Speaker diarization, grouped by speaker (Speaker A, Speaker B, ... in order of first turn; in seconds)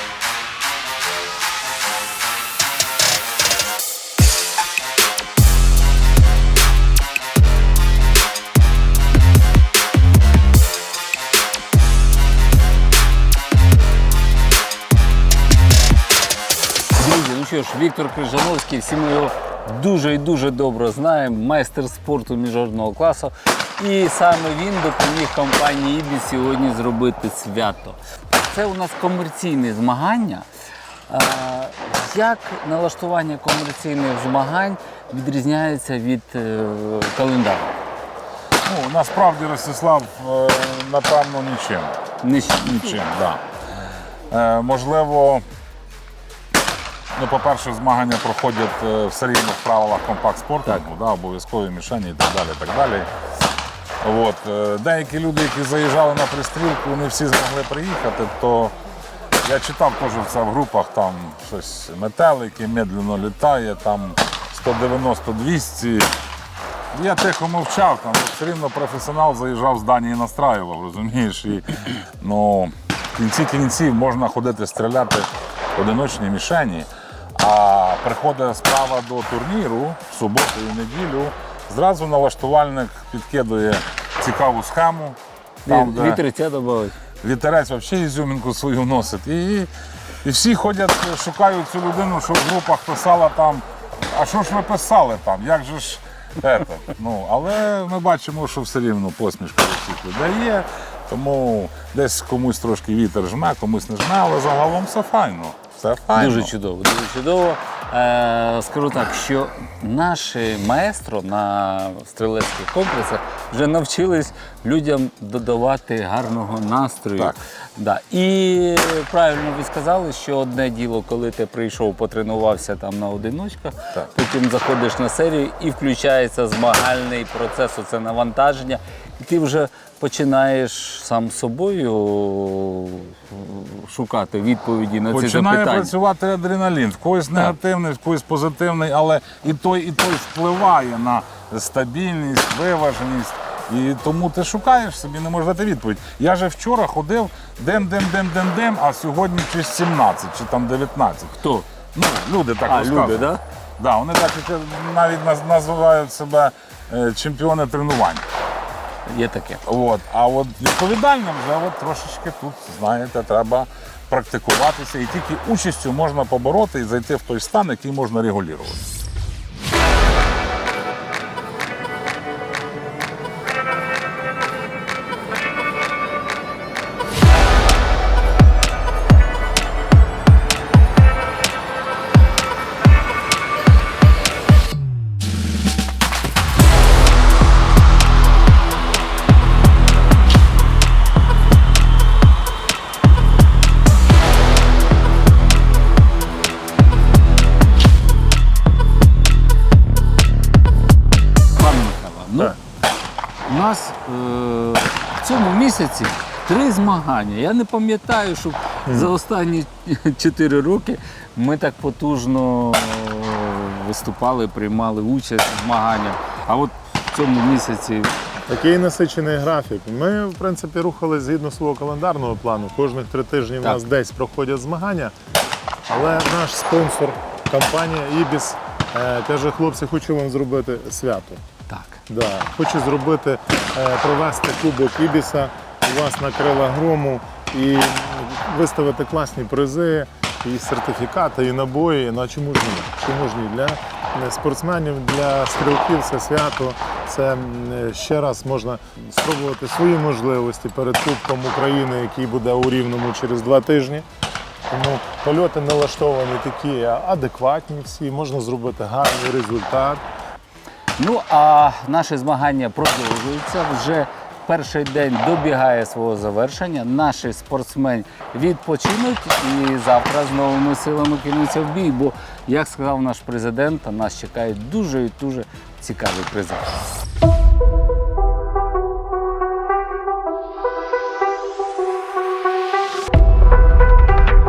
Speaker A: 17.0-30.4, 31.1-37.8, 42.2-43.0, 85.7-86.9, 106.1-135.9, 151.3-151.7, 152.7-153.4, 159.1-159.6, 201.5-202.5, 203.4-218.1, 231.7-232.0, 261.0-276.8
Speaker B: 38.6-42.0, 42.5-43.4, 44.3-45.4, 47.1-53.1, 54.0-58.7, 59.4-66.1, 66.9-86.2, 87.2-89.7, 90.2-106.5, 135.1-158.2, 159.6-168.8
Speaker C: 218.5-225.1, 225.9-231.4, 232.1-254.1, 254.7-260.0